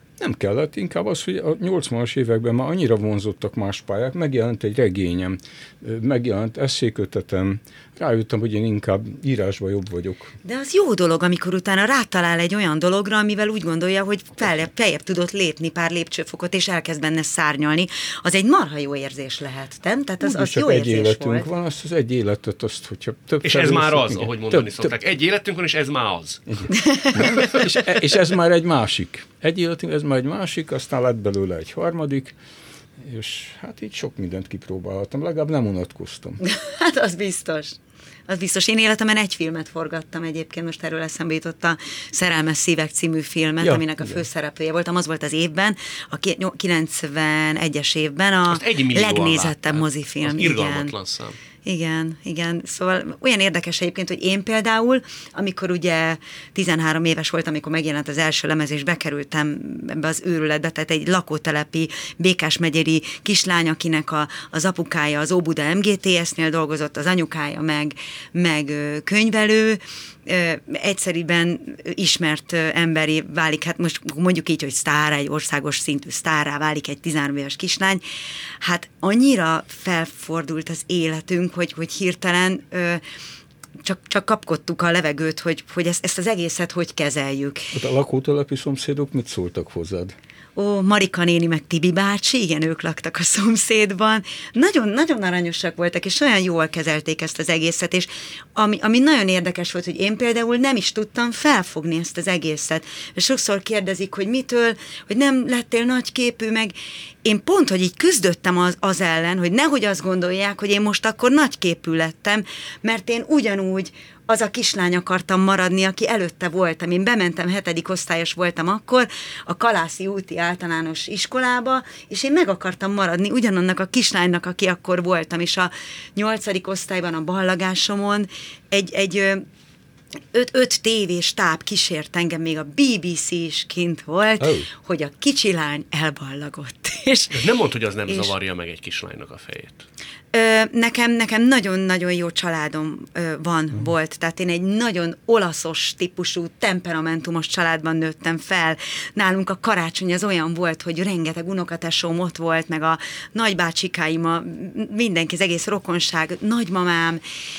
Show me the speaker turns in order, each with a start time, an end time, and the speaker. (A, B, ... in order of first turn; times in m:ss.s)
0:00.2-0:10.3 A
0:10.4-0:21.5 B
0:20.2-0:24.9 A
0:23.4-0:26.6 C
0:26.5-0:32.4 A
0:26.7-0:27.4 B
0:33.0-0:36.4 A
0:36.4-0:50.9 B
0:43.6-0:44.2 A
0:48.5-0:51.4 C
0:51.6-1:18.0 B
1:18.6-1:23.0 B
1:23.8-1:27.7 B
1:27.7-1:30.2 A
1:30.6-2:09.4 B
2:10.3-2:17.5 B
2:14.4-2:14.7 A
2:17.3-2:19.8 C
2:20.3-2:37.2 B